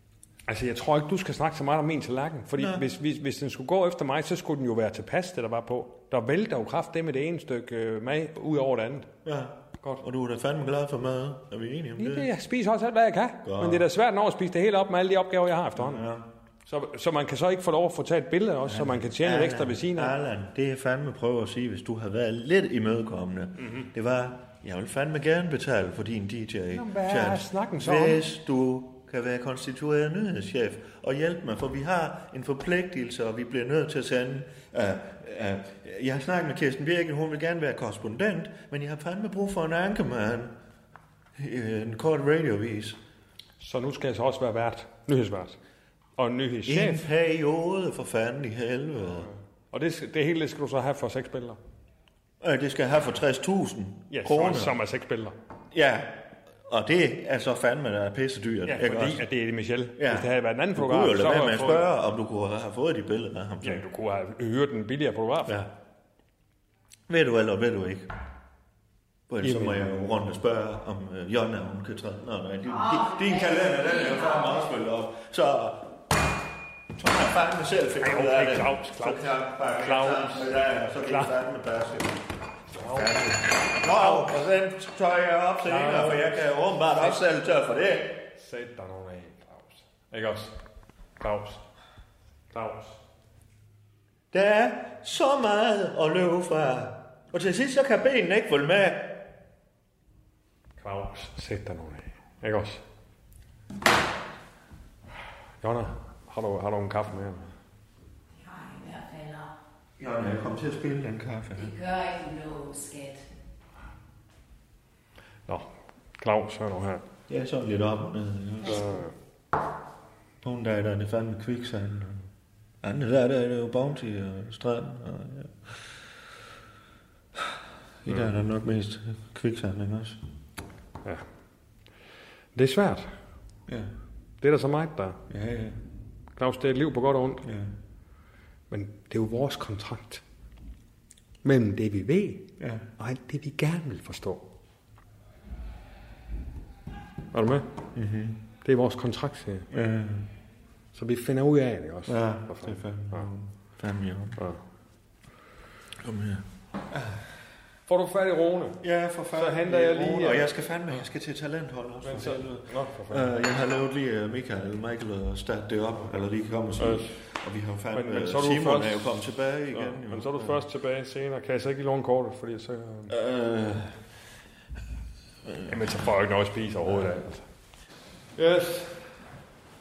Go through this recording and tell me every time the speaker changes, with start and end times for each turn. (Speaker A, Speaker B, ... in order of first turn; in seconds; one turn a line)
Speaker A: 0.5-9.1
Speaker B: 2.6-2.9
Speaker B: 9.2-12.3
Speaker A: 12.0-16.1
Speaker B: 13.4-13.8
Speaker B: 15.8-16.2
Speaker A: 16.7-20.1
Speaker B: 18.6-40.5
Speaker A: 26.7-28.2
Speaker B: 41.4-43.0
Speaker A: 43.6-45.6
Speaker A: 46.2-47.0
Speaker B: 46.7-49.3
Speaker A: 49.2-51.6
Speaker B: 52.4-54.8
Speaker A: 54.1-55.4
Speaker B: 55.7-59.2
Speaker A: 58.7-61.9
Speaker B: 60.0-63.8
Speaker A: 63.6-65.6
Speaker B: 65.5-65.7
Speaker B: 67.1-68.1
Speaker B: 69.3-75.9
Speaker A: 69.4-69.9
Speaker C: 72.7-74.7
Speaker B: 77.0-82.2
Speaker A: 78.0-81.3
Speaker A: 82.7-84.3
Speaker B: 82.9-88.3
Speaker A: 85.7-87.2
Speaker A: 88.4-90.6
Speaker A: 91.2-91.7
Speaker A: 92.5-93.0
Speaker B: 94.3-99.3
Speaker A: 100.8-102.8
Speaker A: 105.6-107.5
Speaker C: 108.4-109.5
Speaker B: 110.0-111.7
Speaker C: 111.5-113.2
Speaker A: 115.5-117.0
Speaker B: 117.3-118.9
Speaker A: 118.6-119.1
Speaker B: 120.4-122.2
Speaker B: 122.8-125.8
Speaker B: 127.4-130.2
Speaker A: 132.5-133.1
Speaker A: 134.4-135.2
Speaker B: 135.3-135.8
Speaker A: 136.4-137.4
Speaker B: 137.4-137.7
Speaker A: 138.7-140.2
Speaker A: 141.4-144.4
Speaker B: 142.6-142.9
Speaker A: 147.3-147.8
Speaker B: 147.9-148.4
Speaker A: 148.6-149.7
Speaker B: 149.7-150.3
Speaker A: 150.9-153.3
Speaker B: 152.1-154.4
Speaker B: 156.0-157.2
Speaker A: 157.9-158.8
Speaker B: 158.8-170.6
Speaker A: 159.3-160.5
Speaker A: 162.0-163.3
Speaker A: 166.8-167.2
Speaker A: 167.9-169.2
Speaker A: 169.7-173.2
Speaker B: 173.1-174.0
Speaker A: 175.7-177.4
Speaker B: 176.8-177.2
Speaker A: 178.4-179.0